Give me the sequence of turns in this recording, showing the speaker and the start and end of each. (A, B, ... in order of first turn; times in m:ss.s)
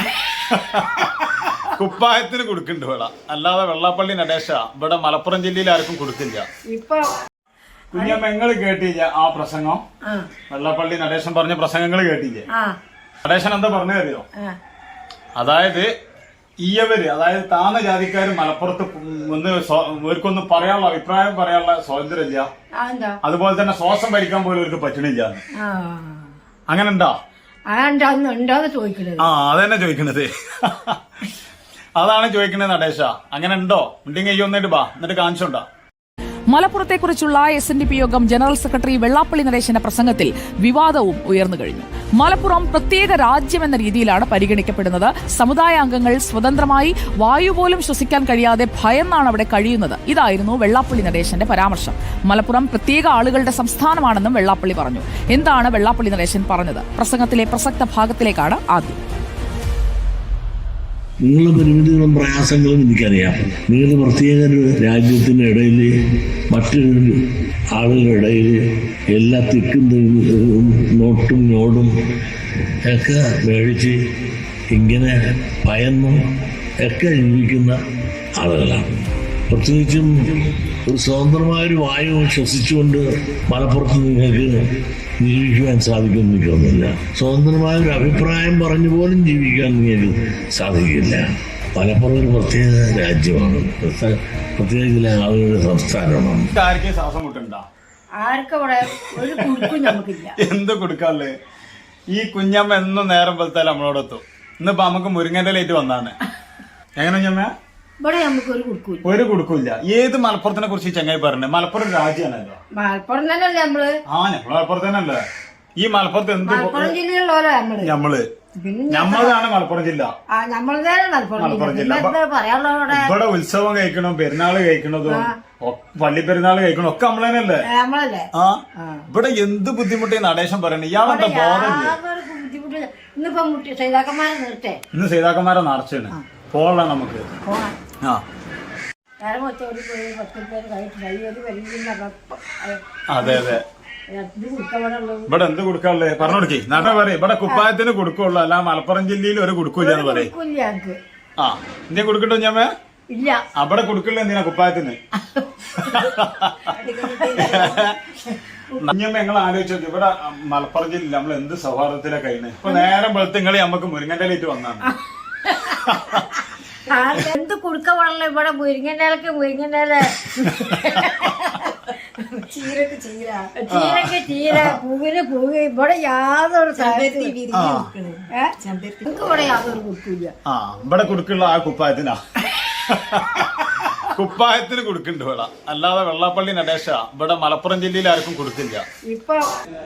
0:00.4-0:06.4 A
0:06.7-0:07.1 B
0:07.9-0:08.2 B
0:07.9-0:09.8 A
0:10.5-0:12.4 A
0:13.2-0:14.2 A
0:15.4-0:15.9 A
0:16.6-0:22.5 A
0:22.8-0:23.1 B
0:23.2-0:25.4 A
0:25.6-0:26.3 B
0:26.7-0:27.1 A
0:27.7-0:29.3 B
0:29.2-0:31.0 A
0:32.0-0:35.6 A
0:36.5-0:59.0 C
1:01.2-1:08.6 D
1:09.1-1:16.2 D
1:16.8-1:17.8 D
1:18.4-1:36.5 D
1:36.5-1:37.6 A
1:38.2-1:40.3 B
1:39.0-1:41.3 A
1:42.1-1:46.2 A
1:47.0-1:47.5 A
1:48.0-1:49.0 B
1:49.0-1:52.6 A
1:52.8-1:53.9 B
1:54.1-1:55.2 A
1:55.8-1:56.9 A
1:56.4-1:57.9 B
1:57.8-1:58.2 A
1:58.6-1:59.4 B
1:58.9-2:00.1 A
2:00.3-2:03.1 B
2:01.4-2:02.1 A
2:02.9-2:07.6 A
2:05.0-2:05.3 B
2:07.7-2:09.0 B
2:08.3-2:12.0 A
2:11.0-2:14.8 B
2:14.9-2:17.2 A
2:17.4-2:17.7 B
2:19.2-2:23.6 B
2:23.1-2:23.6 A
2:24.1-2:25.3 B
2:25.3-2:30.3 A
2:26.2-2:27.7 B
2:29.8-2:31.0 B
2:31.4-2:32.7 A
2:33.1-2:33.4 B
2:33.6-2:35.0 A
2:35.3-2:36.1 B
2:35.8-2:36.7 A
2:36.7-2:38.9 B
2:36.8-2:37.8 E
2:37.3-2:38.0 A
2:38.8-2:44.9 A
2:45.4-2:45.9 B
2:45.6-2:46.3 A
2:46.8-2:51.7 B
2:50.4-2:51.5 A
2:52.3-2:52.6 B
2:52.6-2:53.5 E
2:53.5-2:57.4 B
2:53.7-2:54.8 A
2:56.8-2:59.0 E
2:57.5-2:57.9 A
2:59.0-3:00.3 B
3:00.5-3:02.2 A
3:02.7-3:08.8 A
3:09.1-3:09.4 B